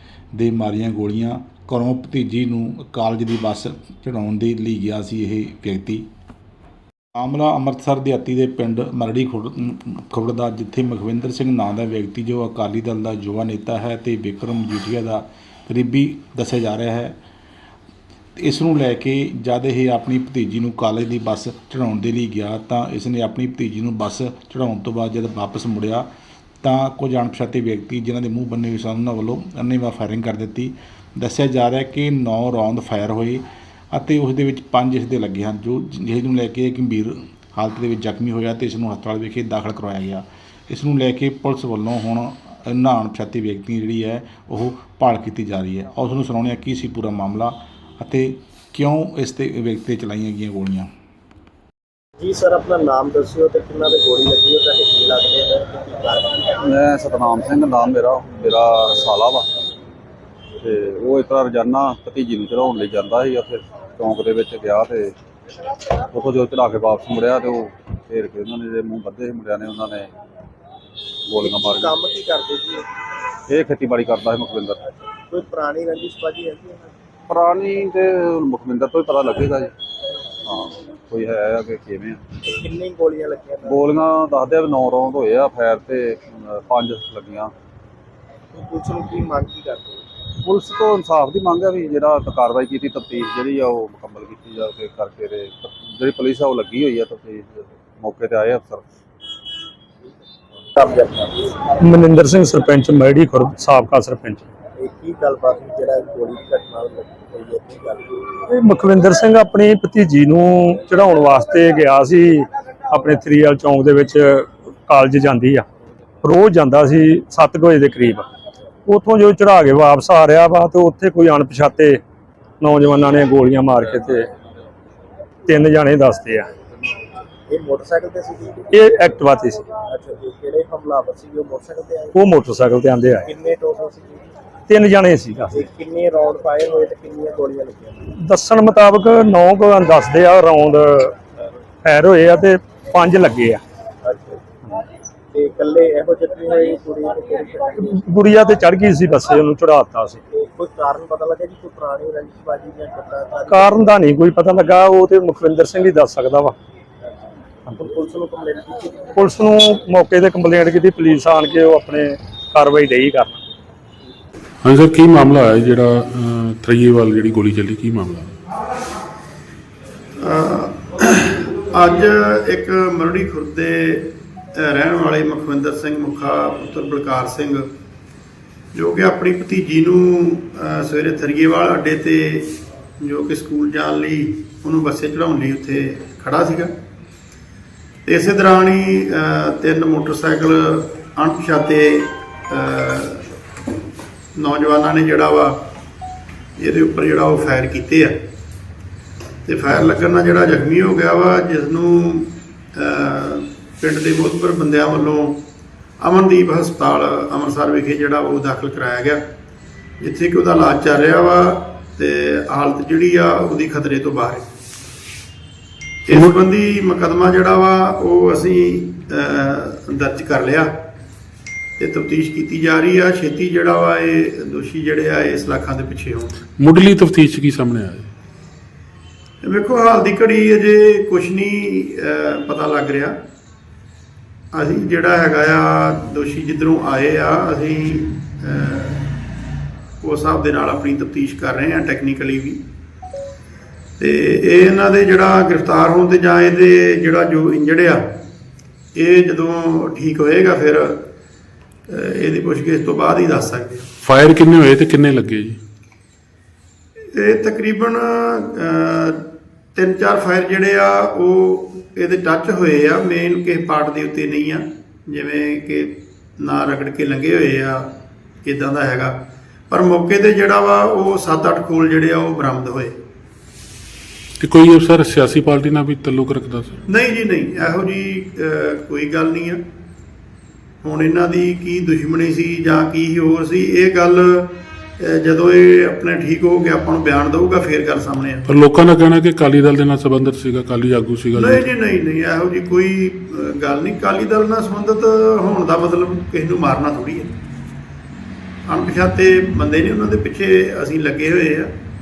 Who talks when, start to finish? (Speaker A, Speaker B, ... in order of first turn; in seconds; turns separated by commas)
Speaker A: 0.4-6.0, Speaker A: 7.2-17.2, Speaker A: 18.4-26.1, Speaker A: 26.6-50.9, Speaker B: 52.2-56.5, Speaker C: 56.6-59.5, Speaker C: 60.6-65.1, Speaker C: 66.1-70.1, Speaker C: 71.3-72.0, Speaker B: 71.4-72.9, Speaker C: 73.5-74.8, Speaker B: 74.8-76.9, Speaker C: 77.3-79.7, Speaker C: 80.5-82.2, Speaker B: 82.4-83.9, Speaker C: 83.7-87.5, Speaker B: 88.5-90.0, Speaker C: 90.4-98.8, Speaker B: 100.8-101.5, Speaker D: 101.8-104.4, Speaker B: 104.8-108.2, Speaker D: 108.5-115.7, Speaker D: 116.2-118.3, Speaker D: 118.9-122.0, Speaker D: 122.6-124.3, Speaker D: 125.5-126.5, Speaker B: 127.5-128.9, Speaker D: 128.7-129.7, Speaker B: 129.8-132.2, Speaker D: 132.2-133.2, Speaker B: 133.2-134.3, Speaker D: 134.7-135.6, Speaker B: 135.5-138.1, Speaker D: 138.2-141.2, Speaker D: 141.8-143.6, Speaker B: 144.0-144.4, Speaker B: 145.3-148.0, Speaker D: 147.8-150.2, Speaker B: 150.3-153.9, Speaker D: 153.5-156.6, Speaker B: 157.7-159.2, Speaker D: 159.2-163.4, Speaker E: 164.6-168.3, Speaker F: 170.2-177.7, Speaker F: 178.7-186.7, Speaker F: 188.1-193.3, Speaker F: 194.4-195.6, Speaker F: 196.6-198.1, Speaker F: 199.5-205.4, Speaker F: 206.0-209.2, Speaker F: 210.0-214.5, Speaker F: 216.1-220.7, Speaker F: 221.8-226.3, Speaker E: 226.6-228.1, Speaker F: 229.4-233.2, Speaker F: 234.5-239.1, Speaker F: 240.0-242.6, Speaker F: 244.0-248.1, Speaker F: 249.0-251.0, Speaker F: 251.9-253.9, Speaker E: 254.0-255.6, Speaker F: 257.1-259.2, Speaker F: 259.8-267.9, Speaker F: 268.4-269.2, Speaker F: 269.7-273.0, Speaker E: 274.4-276.8, Speaker F: 276.9-279.6, Speaker F: 280.8-288.5, Speaker E: 288.5-291.7, Speaker F: 291.4-297.3, Speaker F: 298.7-301.7